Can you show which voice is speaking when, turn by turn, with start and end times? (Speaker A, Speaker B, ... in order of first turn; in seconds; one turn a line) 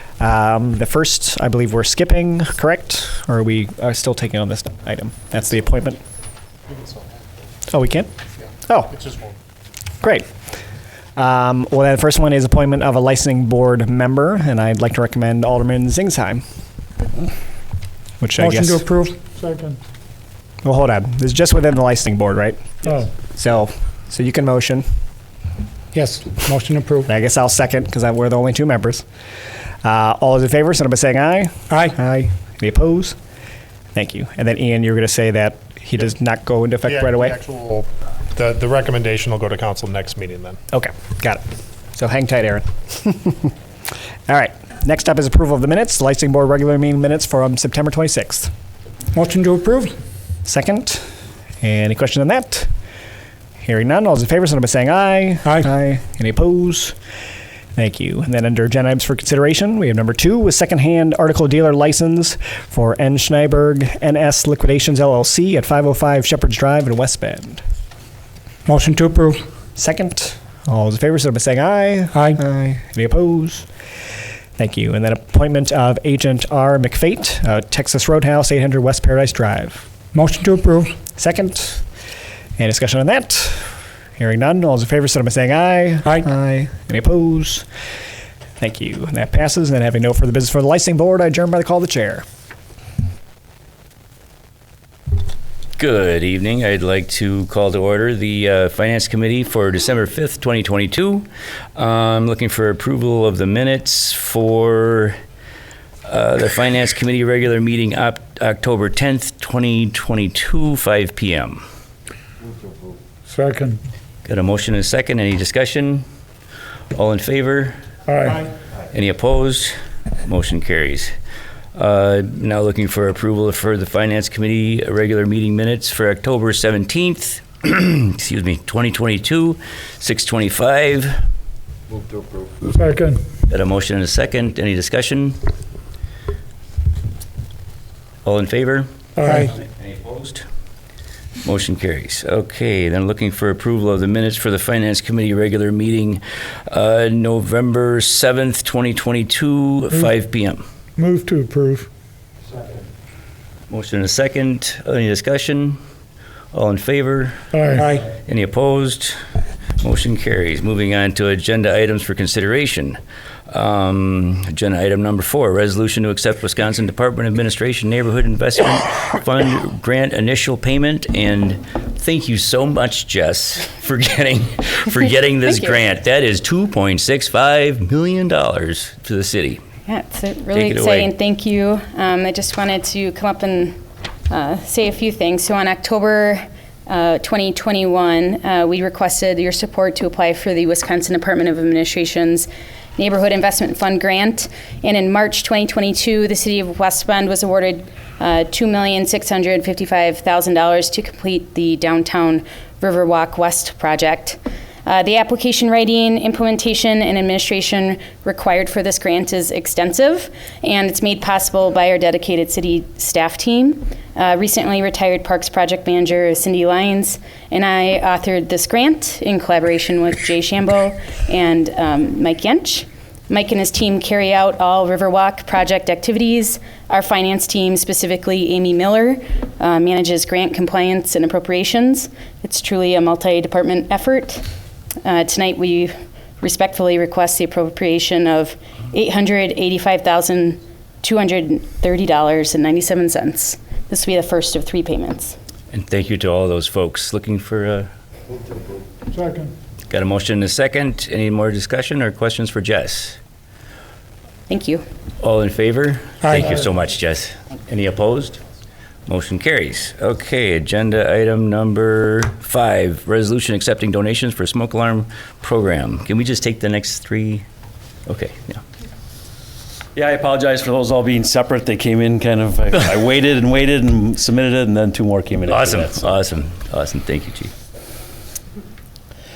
Speaker A: 0.2-6.0
Speaker B: 6.7-7.0
Speaker A: 7.7-8.1
Speaker A: 8.7-9.0
Speaker B: 8.9-9.3
Speaker A: 10.0-10.3
Speaker A: 11.2-16.4
Speaker A: 18.2-18.8
Speaker C: 18.4-19.8
Speaker A: 20.6-24.8
Speaker C: 25.9-27.0
Speaker A: 27.1-29.0
Speaker A: 29.8-33.1
Speaker A: 33.9-37.4
Speaker B: 36.9-40.6
Speaker A: 40.7-41.4
Speaker A: 41.9-43.5
Speaker A: 44.3-48.5
Speaker C: 49.1-49.9
Speaker A: 50.4-51.0
Speaker A: 51.6-52.7
Speaker A: 53.6-56.9
Speaker A: 57.8-67.6
Speaker C: 68.7-69.4
Speaker A: 69.8-73.7
Speaker A: 74.6-79.8
Speaker C: 80.2-80.9
Speaker A: 81.2-81.8
Speaker A: 82.6-87.6
Speaker A: 88.6-92.2
Speaker D: 95.8-105.1
Speaker D: 106.1-111.6
Speaker C: 113.3-113.8
Speaker D: 114.2-116.0
Speaker D: 116.9-117.8
Speaker C: 118.1-118.4
Speaker D: 118.9-121.1
Speaker D: 121.7-131.2
Speaker C: 132.7-133.2
Speaker D: 133.5-135.4
Speaker D: 138.2-140.4
Speaker C: 139.2-139.5
Speaker D: 141.4-150.6
Speaker C: 151.0-151.9
Speaker D: 153.7-155.8
Speaker D: 156.5-159.2
Speaker C: 157.5-158.0
Speaker D: 159.8-163.0
Speaker D: 163.5-179.6
Speaker E: 175.4-175.8
Speaker E: 179.8-183.8
Speaker D: 180.5-181.1
Speaker E: 184.3-234.4
Speaker E: 235.0-245.3
Speaker D: 245.7-247.9
Speaker C: 249.1-249.5
Speaker D: 249.9-253.2
Speaker E: 254.5-254.8
Speaker D: 255.2-258.4
Speaker D: 259.1-267.4
Speaker D: 268.1-268.6
Speaker F: 269.9-276.1
Speaker D: 275.5-277.5